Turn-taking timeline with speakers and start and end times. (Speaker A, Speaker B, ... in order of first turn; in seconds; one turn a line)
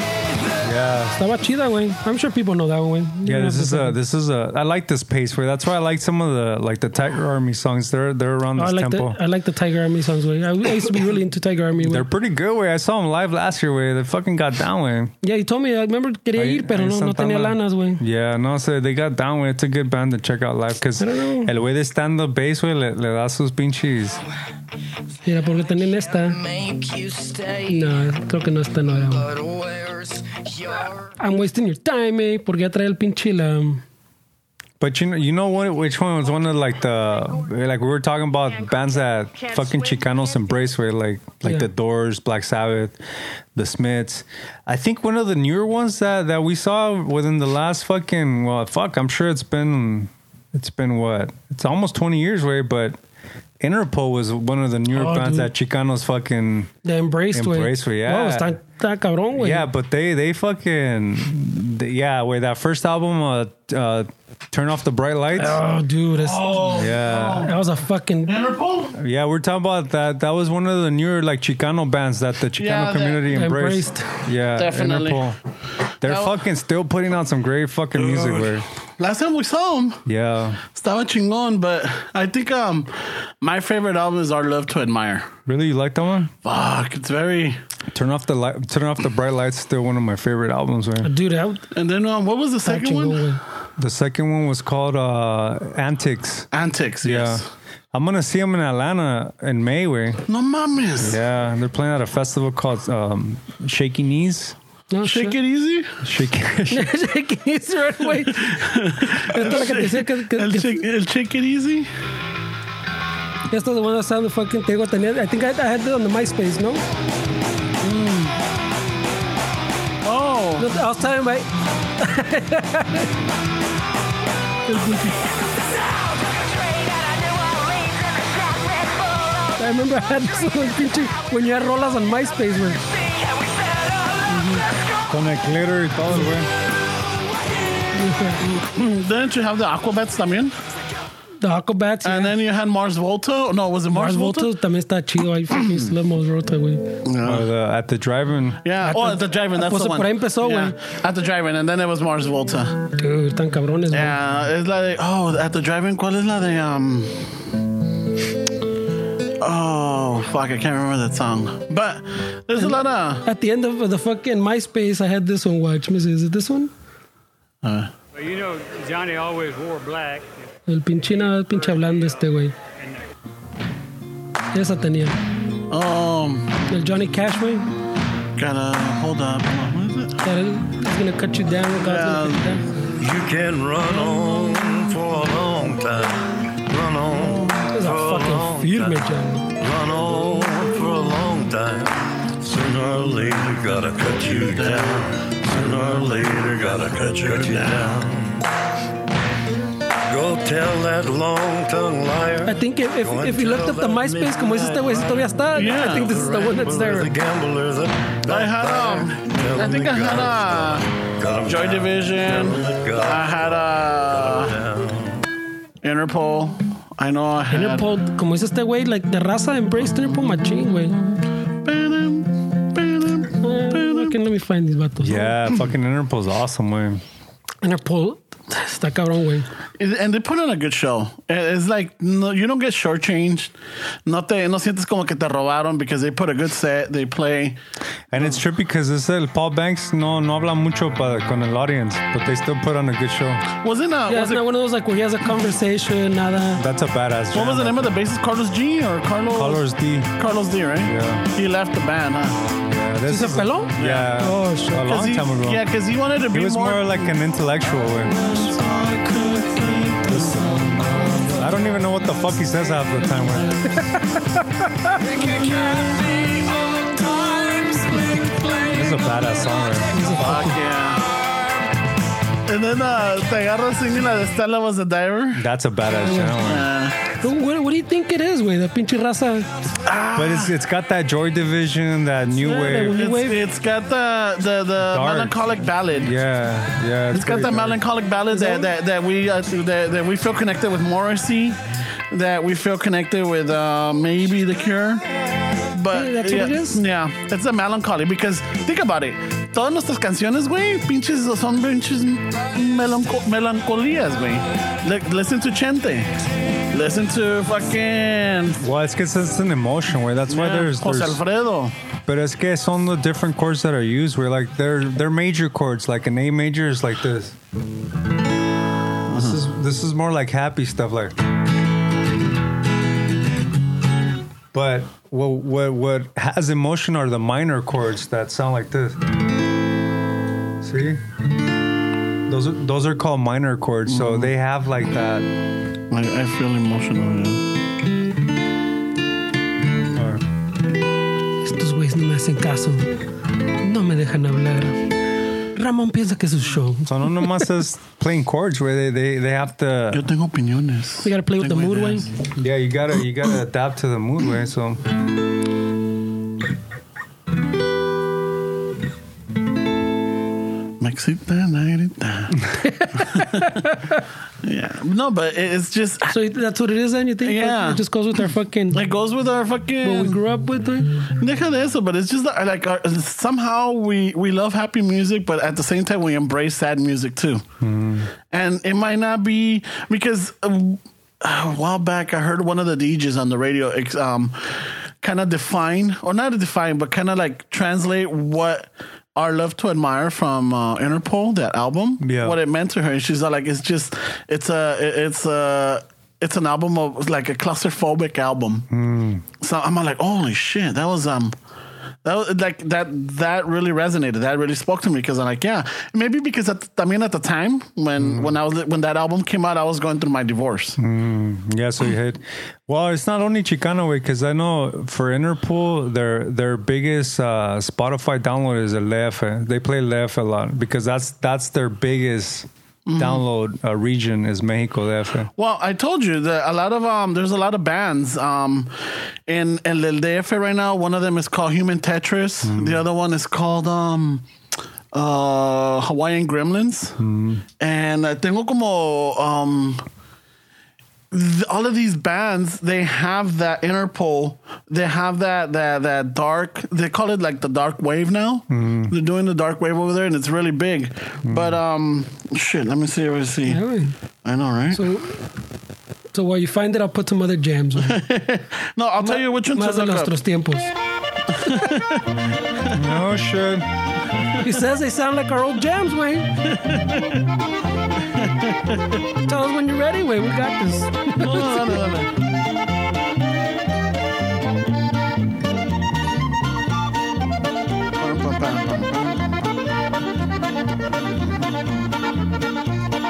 Speaker A: 0.6-1.2
Speaker B: 1.1-4.0
Speaker A: 3.2-9.2
Speaker B: 8.6-12.1
Speaker A: 11.8-15.1
Speaker B: 15.2-18.0
Speaker A: 16.4-24.2
Speaker B: 21.0-21.5
Speaker B: 25.2-26.4
Speaker C: 26.2-28.0
Speaker B: 27.7-29.3
Speaker C: 29.1-31.1
Speaker B: 31.2-33.8
Speaker A: 34.8-43.0
Speaker A: 43.5-53.0
Speaker A: 53.6-56.7
Speaker B: 54.9-55.5
Speaker B: 56.8-59.7
Speaker A: 57.3-58.6
Speaker A: 59.4-65.6
Speaker B: 65.4-66.8
Speaker D: 66.2-67.5
Speaker A: 66.7-67.5
Speaker B: 67.3-68.3
Speaker D: 68.3-69.0
Speaker A: 69.0-75.4
Speaker D: 72.6-73.2
Speaker B: 73.3-74.2
Speaker D: 74.6-75.2
Speaker A: 76.0-78.7
Speaker D: 76.0-76.4
Speaker D: 78.0-80.0
Speaker A: 80.1-80.6
Speaker D: 80.7-85.3
Speaker A: 85.5-86.3
Speaker D: 86.4-87.6
Speaker A: 87.9-91.1
Speaker B: 91.0-91.7
Speaker D: 91.7-93.2
Speaker B: 92.7-93.4
Speaker A: 93.8-96.5
Speaker D: 96.5-97.5
Speaker A: 97.0-97.4
Speaker A: 97.9-100.2
Speaker D: 100.3-101.2
Speaker A: 101.0-104.6
Speaker B: 104.9-105.4
Speaker D: 105.0-106.0
Speaker A: 106.0-106.9
Speaker B: 106.7-110.8
Speaker D: 108.3-111.9
Speaker B: 113.5-116.8
Speaker D: 117.8-118.3
Speaker D: 120.0-120.7
Speaker B: 120.6-121.5
Speaker B: 122.0-123.1
Speaker B: 124.7-125.2
Speaker C: 125.3-129.7
Speaker B: 129.6-132.8
Speaker C: 132.9-135.0
Speaker D: 134.3-134.6
Speaker A: 135.1-136.5
Speaker B: 137.9-138.4
Speaker D: 138.4-140.6
Speaker B: 141.4-142.3
Speaker D: 142.0-144.5
Speaker B: 143.9-147.0
Speaker D: 147.0-147.4
Speaker A: 147.2-148.6
Speaker D: 148.6-152.8
Speaker B: 148.8-150.8
Speaker B: 153.0-154.2
Speaker D: 153.9-157.3
Speaker D: 159.4-163.2
Speaker B: 162.6-166.7
Speaker D: 167.6-167.9
Speaker E: 168.2-170.3
Speaker B: 170.7-172.6
Speaker E: 171.5-172.2
Speaker B: 174.5-175.2
Speaker D: 175.7-176.6
Speaker B: 176.7-177.7
Speaker D: 178.4-180.2
Speaker B: 180.2-182.7
Speaker D: 181.8-182.6
Speaker F: 183.0-189.0
Speaker B: 187.7-189.5
Speaker F: 189.6-198.4
Speaker D: 194.2-197.9
Speaker F: 200.1-213.5
Speaker B: 202.5-207.1
Speaker D: 205.5-206.2
Speaker D: 208.3-210.9
Speaker D: 211.5-214.5
Speaker F: 214.1-215.2
Speaker D: 215.8-217.8
Speaker B: 217.5-221.0
Speaker D: 221.6-224.1
Speaker B: 223.4-225.4
Speaker A: 225.0-227.0
Speaker B: 227.6-229.5
Speaker D: 229.8-233.5
Speaker D: 234.1-237.6
Speaker A: 238.1-243.4
Speaker D: 243.6-244.4
Speaker B: 244.1-246.6
Speaker A: 246.6-247.9
Speaker D: 247.3-252.4
Speaker A: 249.3-250.1
Speaker A: 250.9-251.3
Speaker A: 252.6-255.7
Speaker B: 253.1-254.9
Speaker D: 253.8-254.1
Speaker D: 254.8-257.1
Speaker A: 256.3-258.3
Speaker D: 258.2-261.4
Speaker A: 260.1-260.7
Speaker A: 261.4-263.7
Speaker C: 266.3-267.8
Speaker A: 268.7-270.5
Speaker B: 269.9-270.6
Speaker D: 270.2-271.0
Speaker D: 272.5-275.4
Speaker A: 275.4-276.7
Speaker B: 276.0-276.4
Speaker D: 276.4-277.0
Speaker B: 277.2-279.5
Speaker D: 279.8-280.5
Speaker A: 280.2-283.0
Speaker B: 282.4-283.4
Speaker D: 282.9-286.1
Speaker A: 284.8-285.4
Speaker A: 285.9-287.8
Speaker D: 287.1-291.6
Speaker B: 288.3-288.7
Speaker D: 292.1-295.1
Speaker D: 295.7-306.1
Speaker B: 295.9-296.8
Speaker D: 306.7-308.6
Speaker A: 308.6-311.2
Speaker D: 310.3-311.7
Speaker A: 312.1-317.4
Speaker D: 319.1-319.4
Speaker A: 319.1-321.1
Speaker A: 324.5-329.0
Speaker A: 330.6-331.0
Speaker A: 332.3-335.3
Speaker D: 333.9-334.3
Speaker D: 335.9-337.4
Speaker A: 339.9-340.2
Speaker B: 341.4-342.9
Speaker B: 343.6-344.9
Speaker B: 345.6-347.4
Speaker A: 346.9-350.1
Speaker D: 349.9-352.1
Speaker B: 351.0-352.1
Speaker A: 352.4-354.8
Speaker D: 360.8-363.6
Speaker B: 362.6-363.8
Speaker D: 364.4-366.1
Speaker B: 366.1-368.9
Speaker D: 367.2-367.8
Speaker D: 368.7-370.2
Speaker B: 369.8-370.9
Speaker D: 371.2-377.4
Speaker A: 377.6-378.1
Speaker D: 378.3-398.7
Speaker A: 392.0-392.4
Speaker A: 398.7-399.2
Speaker D: 399.4-401.4
Speaker D: 402.1-410.8
Speaker A: 408.0-408.3
Speaker A: 410.8-425.3
Speaker D: 422.9-423.2
Speaker D: 425.4-428.7
Speaker D: 429.3-434.2
Speaker A: 432.4-432.8
Speaker D: 434.9-437.0
Speaker A: 437.0-437.4
Speaker D: 437.6-439.8
Speaker D: 441.1-453.6
Speaker A: 448.5-448.9
Speaker A: 451.3-451.6
Speaker B: 453.5-453.9
Speaker D: 454.2-454.8
Speaker B: 454.7-455.2
Speaker B: 456.1-458.0
Speaker D: 457.8-460.1
Speaker B: 459.0-460.7
Speaker D: 461.3-462.1
Speaker A: 462.7-463.7
Speaker B: 464.4-466.3
Speaker D: 466.5-467.2
Speaker D: 468.1-469.0
Speaker B: 469.3-471.8
Speaker D: 471.2-472.1
Speaker D: 478.0-479.5
Speaker D: 481.2-481.7